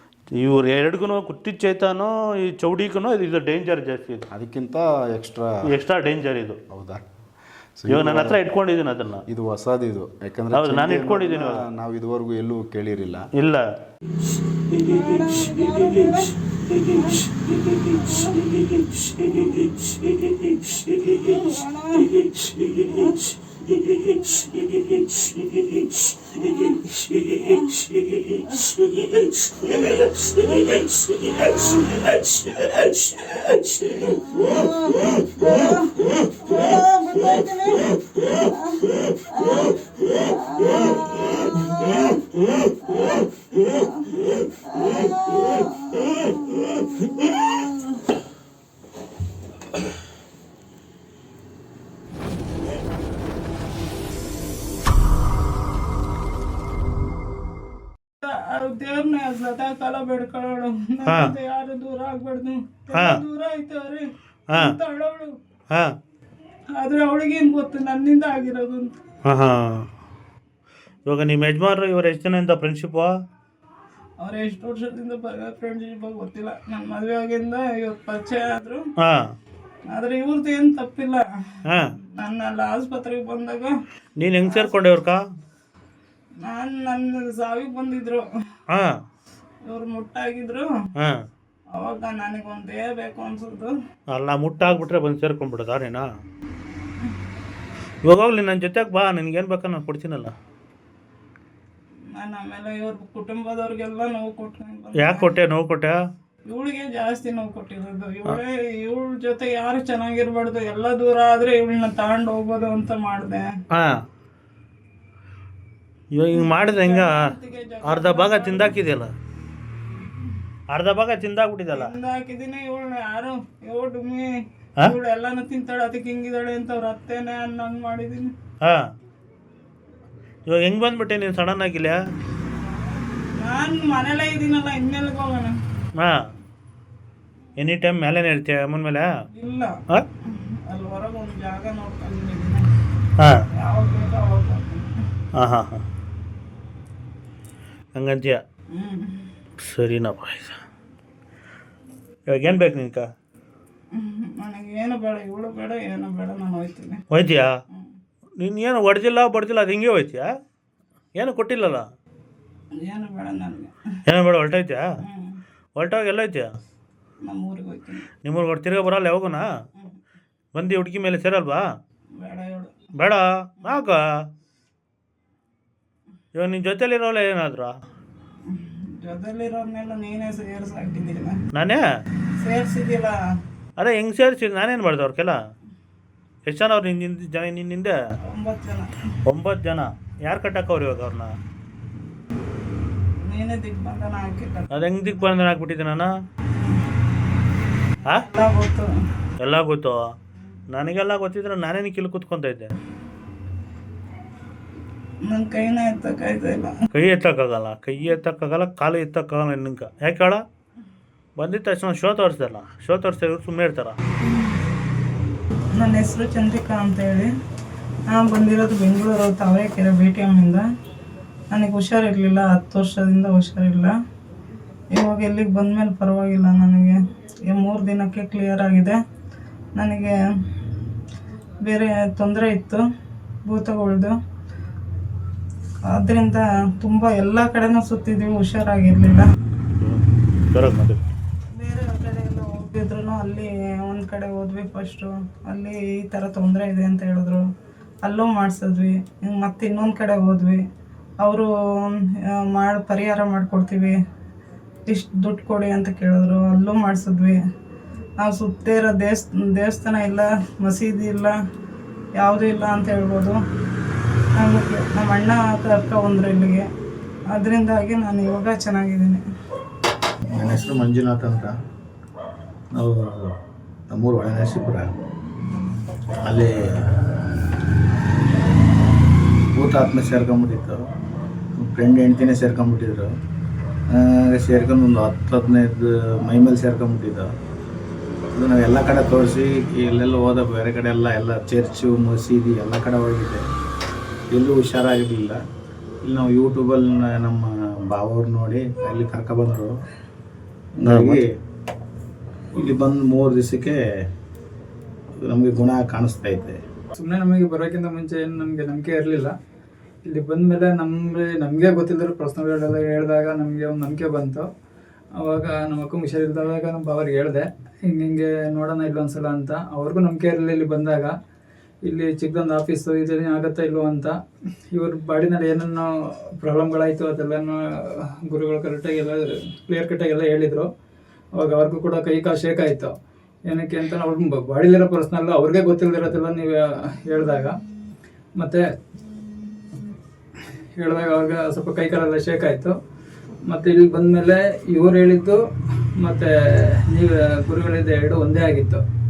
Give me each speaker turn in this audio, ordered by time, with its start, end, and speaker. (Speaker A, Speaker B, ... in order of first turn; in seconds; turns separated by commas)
Speaker A: 0.4-4.2, Speaker B: 4.3-5.7, Speaker A: 5.7-6.6, Speaker B: 6.7-7.1, Speaker B: 7.8-8.4, Speaker A: 7.9-9.2, Speaker B: 9.3-13.3, Speaker A: 10.5-11.6, Speaker A: 13.3-13.6, Speaker C: 14.8-16.4, Speaker C: 16.9-17.3, Speaker C: 17.8-18.4, Speaker C: 19.4-19.6, Speaker C: 21.1-22.3, Speaker C: 22.8-23.2, Speaker C: 26.3-26.8, Speaker C: 27.4-27.8, Speaker C: 29.6-30.0, Speaker C: 31.3-31.9, Speaker C: 34.0-47.6, Speaker C: 58.2-65.4, Speaker A: 61.1-61.3, Speaker A: 62.9-63.2, Speaker A: 64.5-64.8, Speaker C: 66.7-69.0, Speaker A: 69.2-69.9, Speaker A: 71.1-73.1, Speaker C: 74.2-78.9, Speaker A: 79.0-79.3, Speaker C: 79.9-83.8, Speaker A: 81.7-81.9, Speaker A: 84.2-85.2, Speaker C: 84.4-84.7, Speaker C: 86.4-88.2, Speaker A: 88.7-89.0, Speaker C: 89.7-90.7, Speaker A: 91.0-91.2, Speaker C: 91.7-93.8, Speaker A: 94.1-96.1, Speaker A: 98.0-100.3, Speaker C: 102.1-105.3, Speaker A: 105.0-106.0, Speaker C: 106.5-113.5, Speaker A: 113.7-114.0, Speaker A: 116.1-117.3, Speaker C: 116.3-118.8, Speaker A: 117.8-119.1, Speaker A: 120.7-121.9, Speaker C: 121.7-128.3, Speaker A: 128.6-128.9, Speaker A: 130.5-132.0, Speaker C: 132.4-135.6, Speaker A: 136.0-136.3, Speaker A: 137.6-139.1, Speaker C: 139.3-142.7, Speaker A: 143.2-143.4, Speaker C: 143.5-145.0, Speaker A: 145.3-145.8, Speaker A: 147.9-148.4, Speaker C: 148.7-149.3, Speaker A: 149.6-150.6, Speaker A: 152.3-153.1, Speaker C: 153.9-157.0, Speaker A: 157.1-157.5, Speaker A: 158.4-160.3, Speaker A: 161.2-161.9, Speaker C: 162.7-164.0, Speaker A: 164.1-164.8, Speaker C: 165.0-165.4, Speaker A: 165.8-166.5, Speaker C: 167.2-168.0, Speaker A: 168.2-169.5, Speaker A: 170.5-171.7, Speaker C: 172.2-172.8, Speaker A: 173.0-174.2, Speaker A: 176.3-177.7, Speaker C: 178.5-181.4, Speaker A: 181.5-181.8, Speaker C: 182.4-183.2, Speaker A: 183.8-185.4, Speaker A: 186.5-188.0, Speaker C: 188.2-189.1, Speaker A: 189.3-191.3, Speaker C: 193.2-194.9, Speaker A: 194.7-196.1, Speaker C: 196.5-196.8, Speaker C: 198.1-198.9, Speaker A: 199.4-200.1, Speaker A: 200.7-202.8, Speaker C: 205.2-206.8, Speaker A: 206.9-210.4, Speaker A: 211.4-214.0, Speaker C: 214.2-214.6, Speaker C: 215.5-217.3, Speaker C: 218.1-220.6, Speaker C: 221.5-223.9, Speaker C: 224.9-229.0, Speaker C: 229.8-230.2, Speaker C: 231.6-232.8, Speaker C: 233.5-234.2, Speaker C: 235.9-239.3, Speaker A: 239.8-241.0, Speaker C: 241.5-247.5, Speaker C: 248.0-250.6, Speaker C: 251.2-254.0, Speaker C: 254.9-257.4, Speaker C: 258.2-261.4, Speaker C: 262.2-263.4, Speaker C: 264.4-266.7, Speaker C: 267.3-269.2, Speaker D: 270.3-271.5, Speaker D: 272.7-273.3, Speaker D: 273.9-274.9, Speaker D: 276.2-276.9, Speaker D: 279.5-280.8, Speaker D: 281.6-283.1, Speaker D: 283.9-287.3, Speaker D: 288.3-293.4, Speaker D: 294.3-295.4, Speaker D: 296.0-299.7, Speaker D: 300.8-301.3, Speaker A: 300.8-301.2, Speaker D: 302.5-303.8, Speaker D: 305.1-306.6, Speaker E: 306.9-309.3, Speaker E: 310.0-314.5, Speaker E: 315.2-321.1, Speaker E: 321.8-324.2, Speaker E: 324.7-330.7, Speaker E: 331.3-332.9, Speaker E: 333.5-337.5, Speaker E: 338.4-338.6, Speaker E: 340.8-342.7, Speaker E: 343.5-345.4, Speaker E: 346.0-348.8